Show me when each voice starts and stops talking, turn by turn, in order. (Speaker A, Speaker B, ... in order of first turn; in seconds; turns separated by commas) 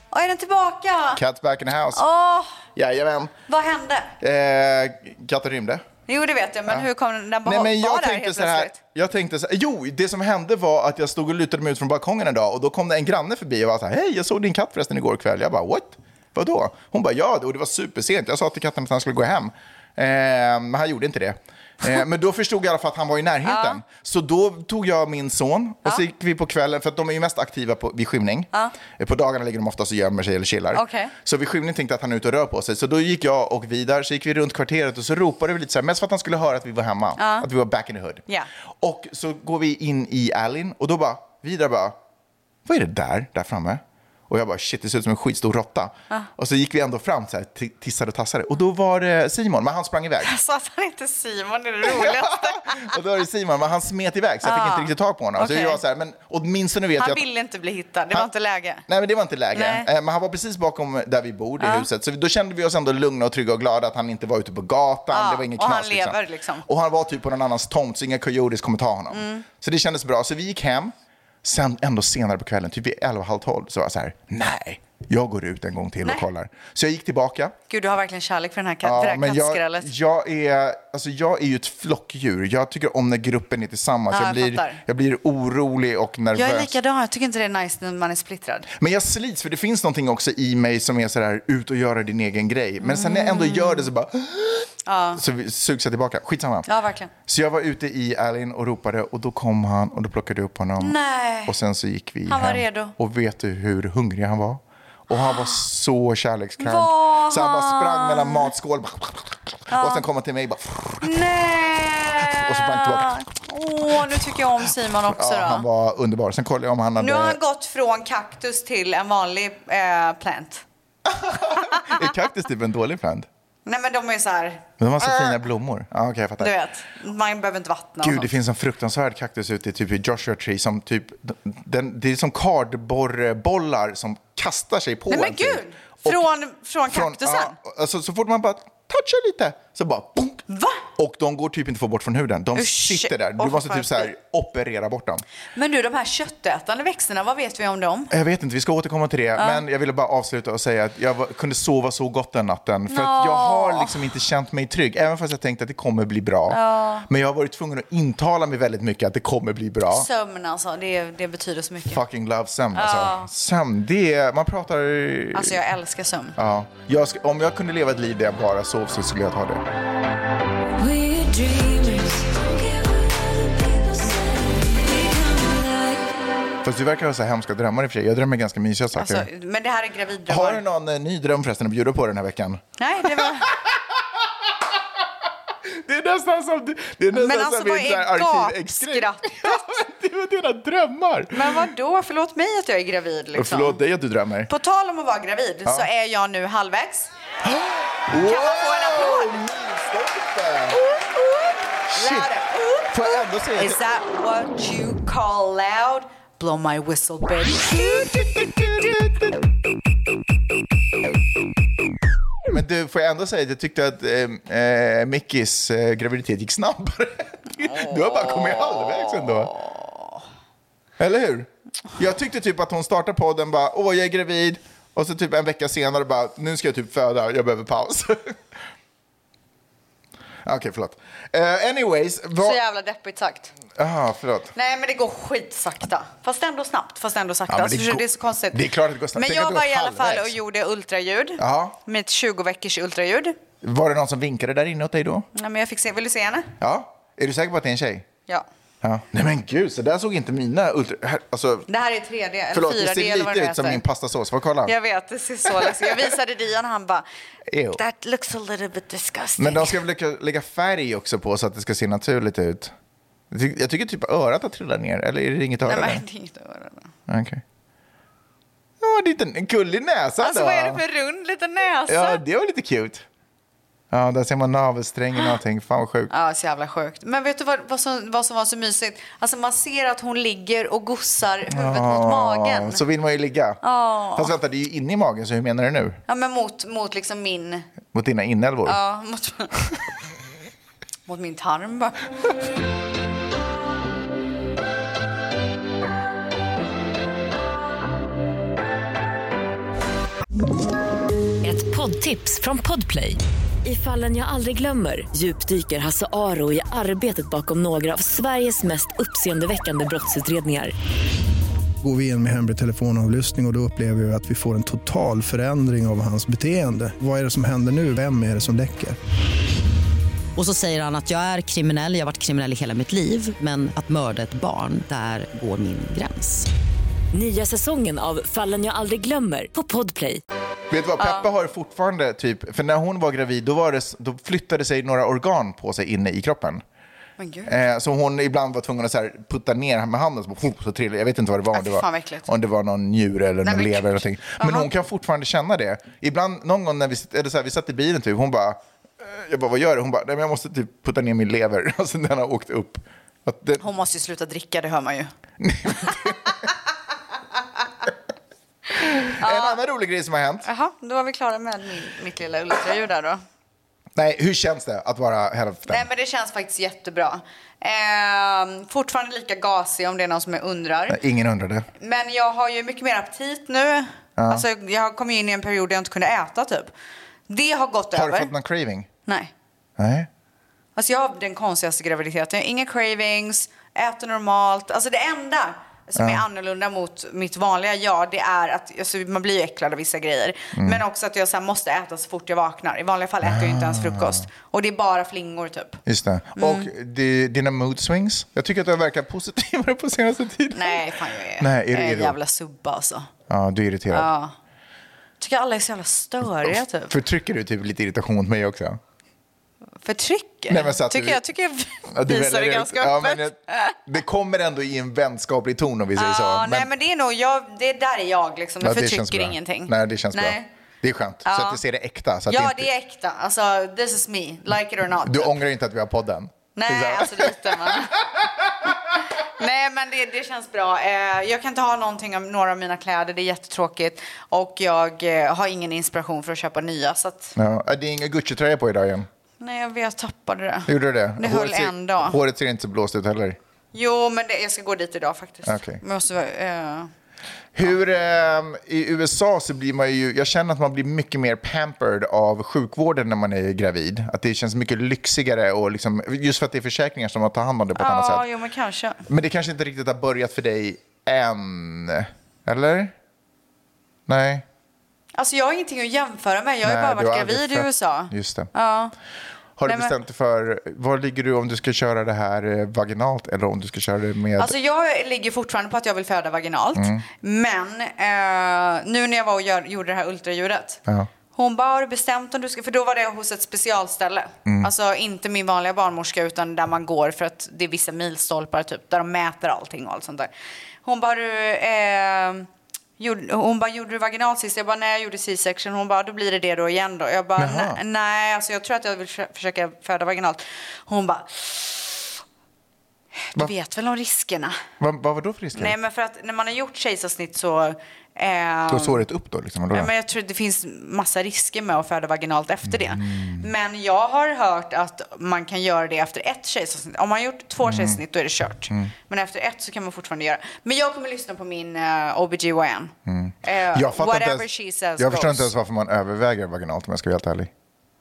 Speaker A: 0.1-1.2, Speaker B: 1.1-2.0, Speaker A: 1.9-2.6, Speaker B: 2.8-3.3, Speaker A: 3.5-4.1, Speaker B: 4.2-5.8, Speaker A: 6.1-8.8, Speaker B: 7.4-38.2, Speaker A: 23.4-23.8, Speaker A: 30.7-31.1, Speaker A: 37.2-37.5, Speaker B: 38.8-42.0, Speaker B: 42.6-50.3, Speaker A: 50.2-53.0, Speaker B: 51.8-57.2, Speaker A: 54.4-55.8, Speaker A: 57.0-58.8, Speaker B: 58.9-77.5, Speaker A: 59.5-59.9, Speaker A: 61.6-61.9, Speaker A: 65.1-66.6, Speaker A: 69.1-69.5, Speaker A: 77.7-79.9, Speaker B: 78.8-86.7, Speaker A: 84.1-84.8, Speaker A: 86.3-88.7, Speaker B: 88.8-96.7, Speaker A: 92.8-93.9, Speaker A: 94.8-95.2, Speaker A: 96.7-97.1, Speaker B: 97.2-111.2, Speaker A: 100.8-101.5, Speaker A: 102.3-102.9, Speaker A: 105.1-105.6, Speaker A: 106.6-108.5, Speaker A: 109.7-110.0, Speaker A: 111.0-115.6, Speaker B: 112.2-113.2, Speaker B: 113.9-114.4, Speaker B: 115.1-117.4, Speaker A: 117.0-120.6, Speaker B: 121.0-123.3, Speaker A: 121.5-122.0, Speaker A: 123.7-125.4, Speaker B: 124.8-126.5, Speaker A: 126.4-128.3, Speaker B: 128.0-136.2, Speaker A: 135.1-137.6, Speaker B: 136.9-140.4, Speaker A: 140.5-140.8, Speaker B: 140.9-145.2, Speaker A: 142.6-144.1, Speaker A: 145.5-148.1, Speaker B: 148.1-160.1, Speaker A: 149.4-149.6, Speaker A: 152.9-154.0, Speaker A: 156.5-157.1, Speaker A: 159.9-162.0, Speaker B: 161.8-165.6, Speaker A: 162.7-163.3, Speaker A: 165.3-166.4, Speaker B: 166.3-169.7, Speaker C: 170.8-176.1, Speaker B: 176.6-179.3, Speaker A: 178.9-180.6, Speaker B: 180.3-184.0, Speaker A: 182.8-183.5, Speaker B: 185.7-191.6, Speaker A: 187.1-189.8, Speaker A: 191.3-193.8, Speaker B: 193.3-194.5, Speaker A: 194.5-197.1, Speaker B: 197.4-200.8, Speaker A: 198.2-199.4, Speaker A: 200.7-208.0, Speaker B: 201.9-202.3, Speaker B: 202.9-203.8, Speaker B: 207.7-209.3, Speaker B: 212.5-219.5, Speaker A: 217.6-220.1, Speaker B: 221.0-228.4, Speaker B: 230.4-232.6, Speaker A: 232.4-233.5, Speaker B: 233.8-234.5, Speaker A: 234.5-238.6, Speaker B: 237.5-240.4, Speaker A: 239.2-243.3, Speaker B: 241.4-241.8, Speaker B: 243.6-245.3, Speaker A: 245.3-246.5, Speaker B: 246.6-248.1, Speaker B: 248.8-251.7, Speaker A: 251.7-253.8, Speaker B: 252.5-254.8, Speaker A: 254.7-257.0, Speaker B: 255.4-256.1, Speaker B: 257.5-257.8, Speaker A: 257.7-259.8, Speaker B: 259.4-262.7, Speaker B: 263.3-266.0, Speaker A: 265.7-266.9, Speaker B: 267.1-267.4, Speaker B: 268.8-270.8, Speaker A: 270.2-272.2, Speaker B: 271.9-273.1, Speaker B: 273.9-276.1, Speaker A: 276.1-282.8, Speaker B: 281.5-283.6, Speaker A: 283.6-284.3, Speaker B: 284.1-286.0, Speaker A: 286.1-287.7, Speaker B: 287.9-288.8, Speaker A: 288.6-289.5, Speaker A: 291.1-292.1, Speaker C: 301.4-310.7, Speaker D: 311.8-319.0, Speaker E: 320.4-326.5, Speaker C: 327.1-330.2, Speaker B: 330.7-336.6, Speaker A: 331.0-331.2, Speaker A: 337.2-337.5, Speaker B: 337.4-353.6, Speaker A: 341.5-342.3, Speaker A: 343.4-344.7, Speaker A: 353.6-355.1, Speaker B: 355.4-356.3, Speaker B: 358.7-360.4, Speaker A: 359.1-359.6, Speaker A: 360.4-363.2, Speaker B: 363.9-365.9, Speaker A: 365.7-371.0, Speaker B: 370.9-371.7, Speaker A: 371.8-376.7, Speaker B: 374.2-374.4, Speaker A: 377.3-378.3, Speaker B: 377.9-378.9, Speaker A: 379.1-379.3, Speaker B: 379.8-380.1, Speaker A: 380.8-395.8, Speaker B: 385.9-386.2, Speaker B: 390.6-390.8, Speaker B: 393.2-394.2, Speaker B: 395.9-402.2, Speaker A: 396.4-396.7, Speaker A: 400.5-403.1, Speaker B: 403.3-404.1, Speaker A: 403.9-404.3, Speaker A: 405.2-406.9, Speaker B: 406.4-408.8, Speaker A: 409.8-413.8, Speaker B: 410.5-411.2, Speaker B: 411.9-416.7, Speaker A: 415.9-420.5, Speaker B: 418.6-422.7, Speaker A: 421.2-421.6, Speaker A: 422.3-425.3, Speaker B: 424.9-428.8, Speaker A: 426.5-428.0, Speaker A: 429.4-437.4, Speaker B: 437.4-439.1, Speaker A: 439.4-442.2, Speaker B: 440.7-443.4, Speaker A: 443.7-446.9, Speaker B: 445.4-445.8, Speaker B: 447.5-458.2, Speaker A: 457.7-459.0, Speaker B: 459.1-462.9, Speaker B: 464.1-464.4, Speaker A: 465.1-468.9, Speaker B: 466.6-468.5, Speaker B: 469.6-474.5, Speaker A: 469.7-469.9, Speaker A: 474.4-480.8, Speaker B: 476.8-477.0, Speaker A: 481.3-490.3, Speaker A: 490.8-492.5, Speaker A: 493.0-502.2, Speaker B: 497.4-497.8, Speaker A: 503.2-504.6, Speaker B: 504.8-505.7, Speaker A: 505.6-509.0, Speaker B: 508.7-509.9, Speaker A: 509.7-525.5, Speaker B: 512.7-513.5, Speaker B: 517.6-518.0, Speaker B: 523.1-527.5